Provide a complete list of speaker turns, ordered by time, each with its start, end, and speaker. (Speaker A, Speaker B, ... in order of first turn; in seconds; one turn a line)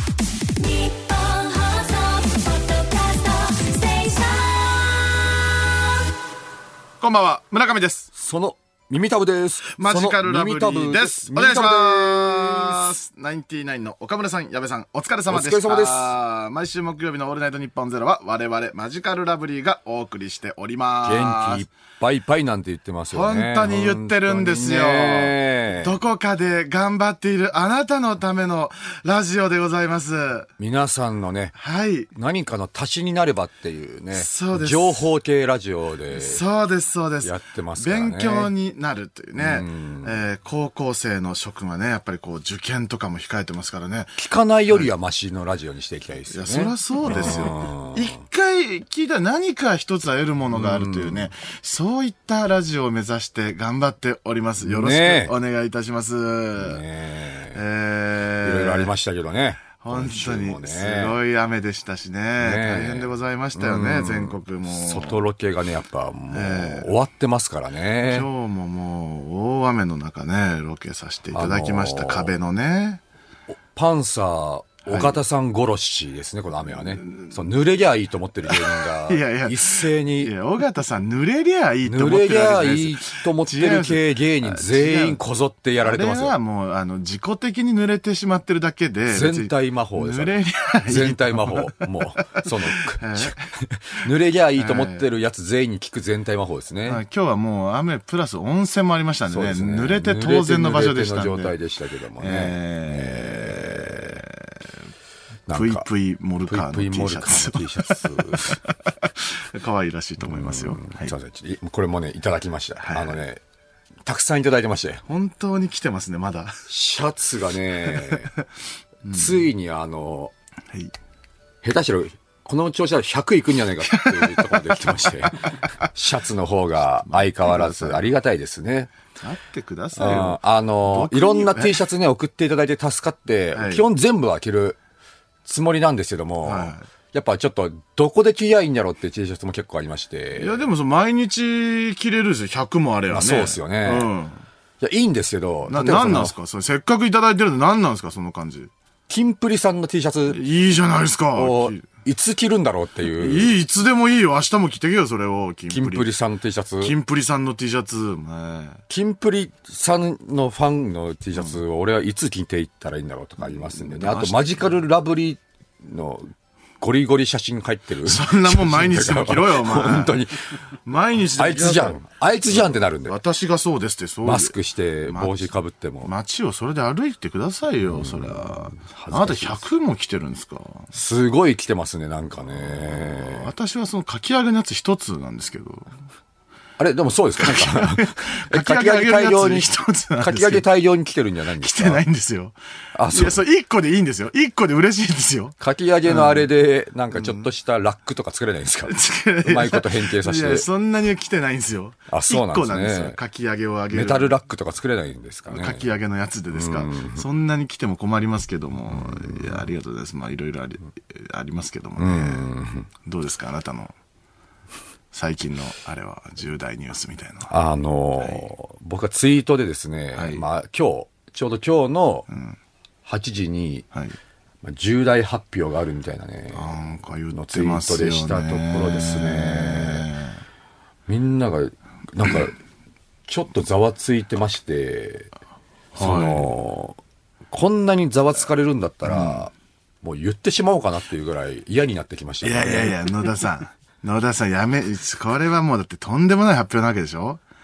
Speaker A: 0.6-5.1
Speaker B: 7.0-8.1
Speaker C: 8.1-12.9
Speaker B: 9.7-21.7
Speaker C: 15.3-16.1
Speaker C: 21.0-25.9
Speaker B: 23.1-30.5
Speaker C: 30.6-31.5
Speaker B: 31.6-32.1
Speaker C: 32.1-36.4
Speaker B: 34.1-35.1
Speaker B: 36.1-44.9
Speaker C: 37.2-38.5
Speaker C: 39.4-40.1
Speaker C: 44.2-48.1
Speaker B: 46.3-56.8
Speaker C: 50.5-51.3
Speaker C: 54.6-55.3
Speaker C: 56.6-57.6
Speaker B: 57.5-58.9
Speaker C: 58.4-61.2
Speaker B: 59.8-65.2
Speaker C: 62.4-68.3
Speaker B: 66.3-66.9
Speaker B: 68.1-73.0
Speaker C: 71.3-72.3
Speaker C: 73.5-80.3
Speaker B: 74.9-75.2
Speaker B: 76.7-77.4
Speaker B: 78.5-85.2
Speaker C: 81.8-86.3
Speaker B: 85.8-93.5
Speaker C: 89.1-97.0
Speaker B: 94.5-95.0
Speaker B: 96.8-101.5
Speaker C: 99.3-104.2
Speaker B: 102.2-104.7
Speaker C: 105.5-105.8
Speaker B: 105.5-111.1
Speaker C: 106.5-108.6
Speaker C: 110.2-113.4
Speaker B: 112.8-113.2
Speaker C: 114.0-115.0
Speaker B: 115.0-116.7
Speaker C: 116.7-118.3
Speaker B: 117.9-118.2
Speaker B: 119.0-119.5
Speaker C: 119.1-120.3
Speaker C: 121.6-128.9
Speaker B: 123.9-125.9
Speaker B: 127.1-128.1
Speaker B: 129.2-131.8
Speaker C: 130.0-134.8
Speaker B: 133.5-133.8
Speaker C: 135.4-140.6
Speaker B: 136.4-136.9
Speaker B: 140.3-144.4
Speaker C: 143.1-144.1
Speaker C: 144.8-146.3
Speaker B: 145.7-148.7
Speaker C: 149.1-150.4
Speaker B: 150.3-151.8
Speaker C: 151.3-153.5
Speaker B: 153.2-156.1
Speaker C: 155.7-156.9
Speaker B: 156.8-158.8
Speaker C: 158.9-170.5
Speaker B: 163.4-164.7
Speaker B: 168.0-170.2
Speaker B: 170.8-174.5
Speaker C: 171.3-173.2
Speaker C: 174.2-176.1
Speaker B: 175.1-175.5
Speaker B: 176.0-180.9
Speaker C: 177.9-179.6
Speaker C: 180.9-183.5
Speaker B: 182.7-185.9
Speaker C: 186.8-192.0
Speaker B: 187.4-190.7
Speaker B: 191.6-192.5
Speaker C: 192.9-193.4
Speaker B: 193.1-196.4
Speaker C: 195.6-200.7
Speaker B: 197.1-197.4
Speaker B: 198.9-204.3
Speaker C: 202.1-203.2
Speaker C: 203.9-205.8
Speaker B: 205.5-212.5
Speaker C: 206.5-207.2
Speaker C: 212.0-212.9
Speaker B: 213.0-213.9
Speaker B: 215.1-217.5
Speaker C: 217.5-222.2
Speaker B: 218.2-218.5
Speaker B: 220.1-220.4
Speaker B: 222.3-222.6
Speaker C: 223.1-223.8
Speaker C: 224.6-226.7
Speaker B: 226.5-230.4
Speaker C: 227.3-230.1
Speaker C: 231.1-232.5
Speaker C: 233.3-235.3
Speaker B: 235.9-236.5
Speaker C: 235.9-237.0
Speaker C: 237.5-243.0
Speaker B: 239.1-239.4
Speaker B: 242.4-247.4